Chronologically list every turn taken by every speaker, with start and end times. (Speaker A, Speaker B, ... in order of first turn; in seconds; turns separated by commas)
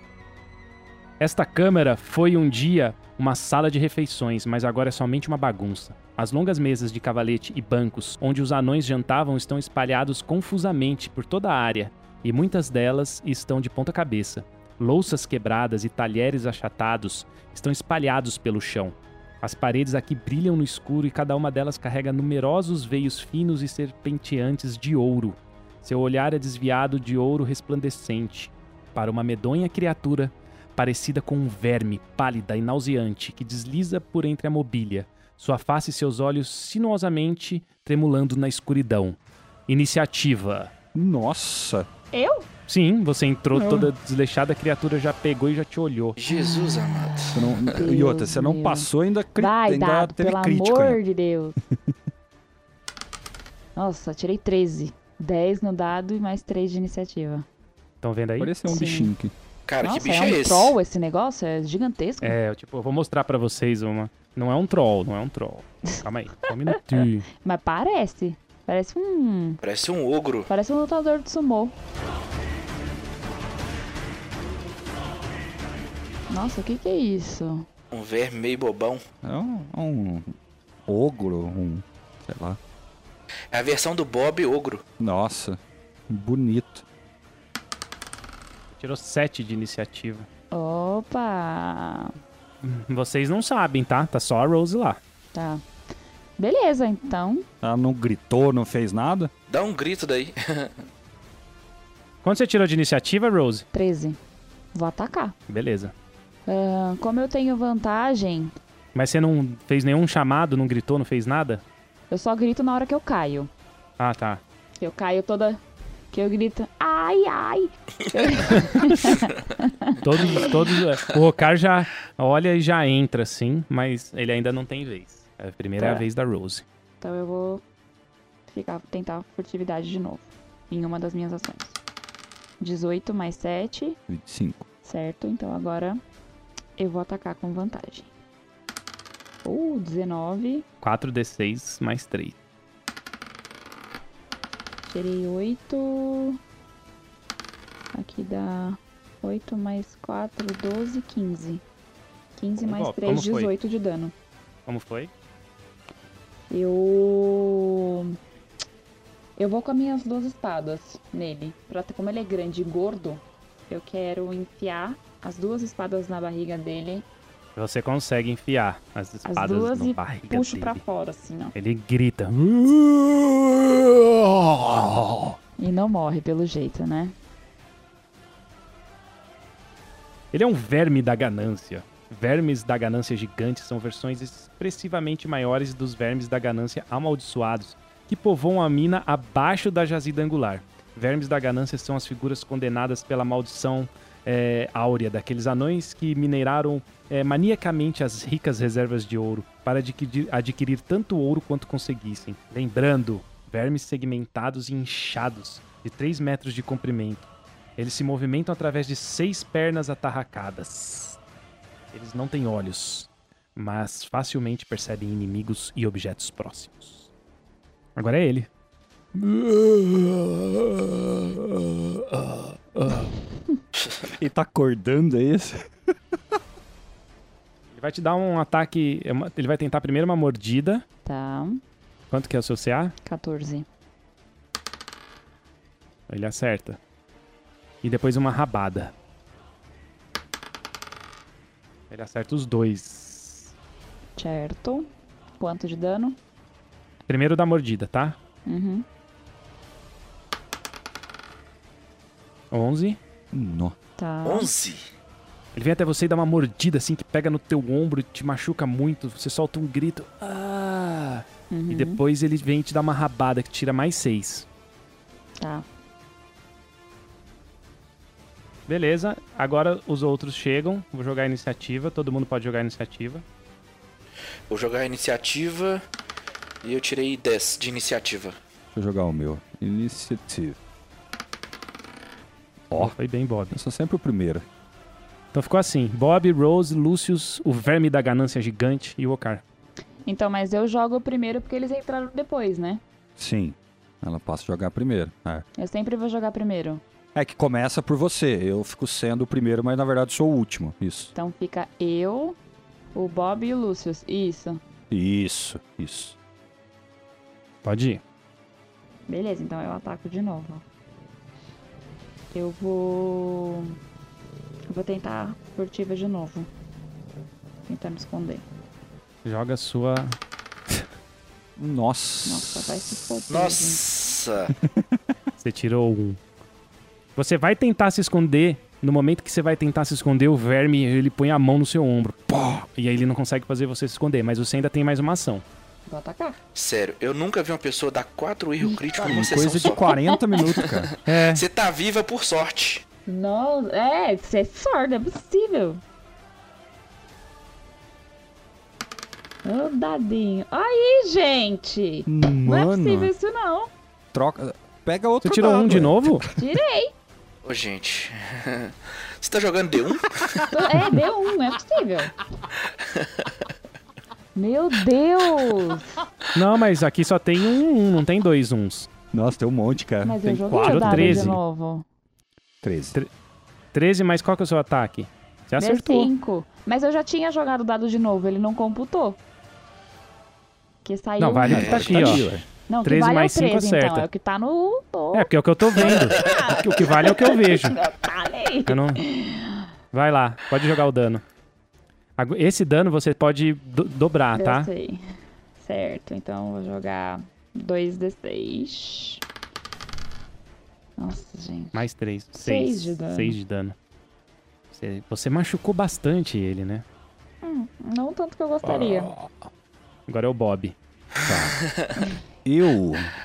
Speaker A: 1.2-40.7, Speaker B: 40.9-41.9, Speaker C: 42.1-42.5, Speaker A: 42.7-46.2, Speaker C: 43.5-43.9, Speaker D: 46.2-47.8, Speaker C: 46.3-51.6, Speaker B: 47.3-51.0, Speaker C: 53.8-57.5, Speaker A: 58.0-58.5, Speaker B: 58.4-59.3, Speaker C: 58.6-59.1, Speaker D: 59.7-60.7, Speaker C: 59.8-62.4, Speaker A: 62.2-67.3, Speaker C: 67.4-69.6, Speaker D: 69.6-70.5, Speaker C: 70.5-71.8, Speaker C: 76.3-77.7, Speaker D: 77.9-79.0, Speaker B: 79.2-80.3, Speaker B: 80.9-82.6, Speaker D: 83.5-84.8, Speaker B: 85.0-86.8, Speaker A: 88.7-90.3, Speaker C: 90.5-92.1, Speaker A: 92.6-95.0, Speaker C: 95.3-95.6, Speaker C: 96.4-97.5, Speaker B: 97.6-99.3, Speaker D: 99.5-100.8, Speaker A: 102.2-103.7, Speaker C: 103.7-104.2, Speaker C: 104.7-105.3, Speaker A: 105.5-105.9, Speaker C: 106.5-108.5, Speaker A: 108.9-111.6, Speaker C: 112.1-113.5, Speaker A: 114.0-114.4, Speaker C: 114.8-115.6, Speaker C: 116.1-120.5, Speaker A: 120.0-126.6, Speaker C: 125.8-126.0, Speaker C: 127.0-127.6, Speaker C: 128.5-131.8, Speaker C: 132.6-134.0, Speaker B: 134.1-134.7, Speaker C: 134.8-136.0, Speaker C: 136.8-138.1, Speaker C: 139.4-140.7, Speaker A: 140.8-142.4, Speaker C: 144.9-146.4, Speaker C: 147.9-151.6, Speaker C: 152.4-154.1, Speaker A: 152.6-153.5, Speaker A: 154.7-155.1, Speaker C: 156.5-158.2, Speaker C: 159.4-167.1, Speaker A: 167.6-170.8, Speaker C: 169.2-171.5, Speaker A: 171.5-175.1, Speaker C: 175.6-177.1, Speaker A: 180.3-211.2, Speaker A: 211.9-217.1, Speaker A: 217.9-218.5, Speaker A: 219.1-223.1, Speaker B: 224.1-225.7, Speaker A: 227.7-230.8, Speaker C: 231.0-231.6, Speaker A: 232.1-232.9, Speaker C: 233.0-233.7, Speaker A: 236.1-236.8, Speaker A: 237.8-238.9, Speaker A: 241.9-243.5, Speaker C: 244.2-246.2, Speaker A: 247.1-248.2, Speaker C: 248.4-248.8, Speaker A: 252.5-253.0, Speaker B: 253.3-253.8, Speaker C: 254.0-254.5, Speaker D: 254.2-254.8, Speaker A: 255.5-264.5, Speaker C: 261.5-262.0, Speaker C: 265.4-265.6, Speaker A: 268.7-273.2, Speaker D: 274.5-275.8, Speaker D: 276.6-278.4, Speaker B: 278.7-280.6, Speaker B: 282.7-282.9, Speaker A: 282.7-283.6, Speaker B: 283.5-284.4, Speaker A: 285.3-289.4, Speaker C: 290.1-292.8, Speaker B: 293.2-295.4, Speaker C: 295.6-296.8, Speaker B: 297.1-301.1, Speaker C: 301.1-302.4, Speaker C: 302.9-304.6, Speaker B: 304.9-306.1, Speaker A: 307.6-308.0, Speaker C: 309.1-310.6, Speaker C: 312.3-313.8, Speaker C: 314.7-316.5, Speaker C: 317.7-318.4, Speaker A: 319.2-320.2, Speaker B: 321.6-323.2, Speaker C: 322.2-323.8, Speaker D: 323.3-324.5, Speaker B: 324.6-325.0, Speaker A: 325.4-326.2, Speaker A: 327.1-335.4, Speaker C: 335.9-336.4, Speaker D: 336.5-339.9, Speaker B: 339.0-341.4, Speaker C: 339.7-340.4, Speaker D: 340.5-342.8, Speaker A: 341.1-341.4, Speaker C: 343.1-345.8, Speaker C: 349.4-353.7, Speaker B: 352.1-353.1, Speaker B: 354.1-356.5, Speaker A: 355.2-356.2, Speaker C: 356.4-356.9, Speaker D: 357.4-360.5, Speaker C: 360.5-362.2, Speaker D: 362.7-363.5, Speaker C: 364.3-365.9, Speaker A: 366.3-368.9, Speaker B: 369.1-371.4, Speaker C: 370.0-371.8, Speaker A: 370.6-371.3, Speaker B: 372.6-373.0, Speaker A: 373.7-376.1, Speaker C: 375.6-379.2, Speaker C: 380.8-382.1, Speaker A: 381.2-384.1, Speaker D: 381.5-382.3, Speaker B: 381.5-382.4, Speaker C: 382.7-389.7, Speaker A: 385.1-387.8, Speaker A: 388.7-389.0, Speaker A: 389.9-391.2, Speaker A: 392.2-394.7, Speaker C: 394.3-395.0, Speaker C: 395.6-399.2, Speaker C: 401.0-401.8, Speaker A: 401.7-403.8, Speaker C: 402.3-403.4, Speaker A: 404.7-406.8, Speaker C: 407.4-409.1, Speaker A: 408.6-409.3, Speaker A: 410.1-411.5, Speaker B: 411.2-411.6, Speaker B: 412.4-413.1